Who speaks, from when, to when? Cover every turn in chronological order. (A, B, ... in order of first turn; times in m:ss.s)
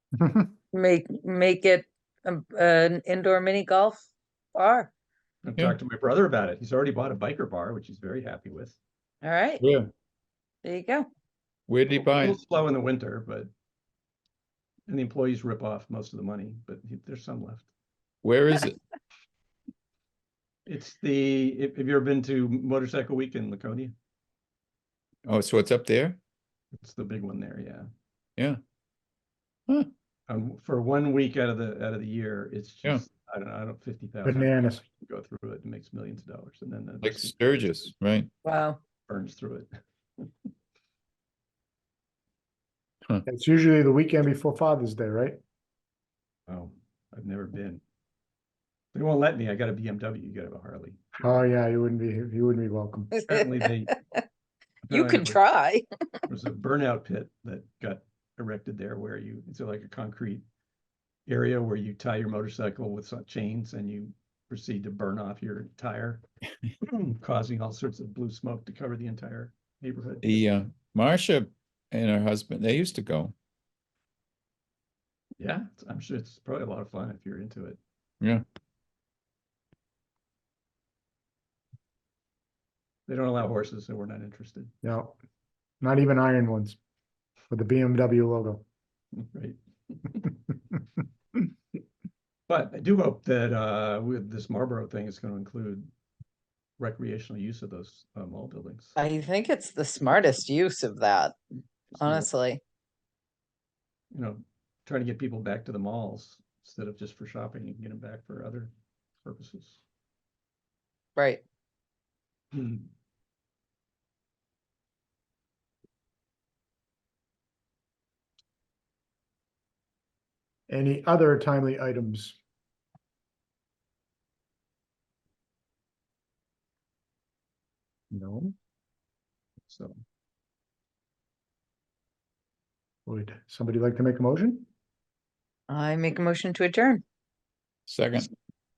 0:00.7-0:04.9 A
0:05.4-0:08.8 B
0:09.2-0:09.6 A
0:09.6-0:09.9 C
0:10.6-0:11.1 A
0:11.7-0:12.4 C
0:12.0-0:13.5 B
0:14.9-0:17.7 B
0:18.2-0:18.8 C
0:20.7-0:23.9 B
0:25.2-0:26.2 C
0:26.7-0:27.9 B
0:30.3-0:37.7 B
0:34.2-0:34.8 D
0:37.0-0:38.3 C
0:38.4-0:38.8 A
0:39.1-0:40.5 B
0:43.2-0:45.4 D
0:46.5-0:47.8 B
0:48.9-0:51.4 B
0:51.2-0:53.1 D
0:53.1-0:54.2 A
0:53.2-0:53.9 B
0:54.8-0:55.4 B
0:54.9-0:55.9 A
0:56.3-1:00.4 B
1:01.3-1:06.2 B
1:06.8-1:10.4 B
1:10.2-1:13.3 C
1:15.4-1:17.8 B
1:23.1-1:24.7 B
1:24.8-1:25.1 D
1:25.8-1:26.8 D
1:27.5-1:28.6 D
1:29.1-1:30.3 B
1:32.5-1:35.9 B
1:36.8-1:39.0 B
1:39.0-1:41.4 A
1:41.9-1:42.3 B
1:42.0-1:42.6 A
1:44.1-1:48.7 B
1:49.2-1:49.8 B
1:51.2-1:51.4 A
1:52.5-1:52.9 B
2:00.7-2:02.4 D
2:08.1-2:08.5 D
2:09.7-2:10.0 B
2:13.1-2:14.7 D
2:15.7-2:17.0 A
2:17.9-2:18.3 C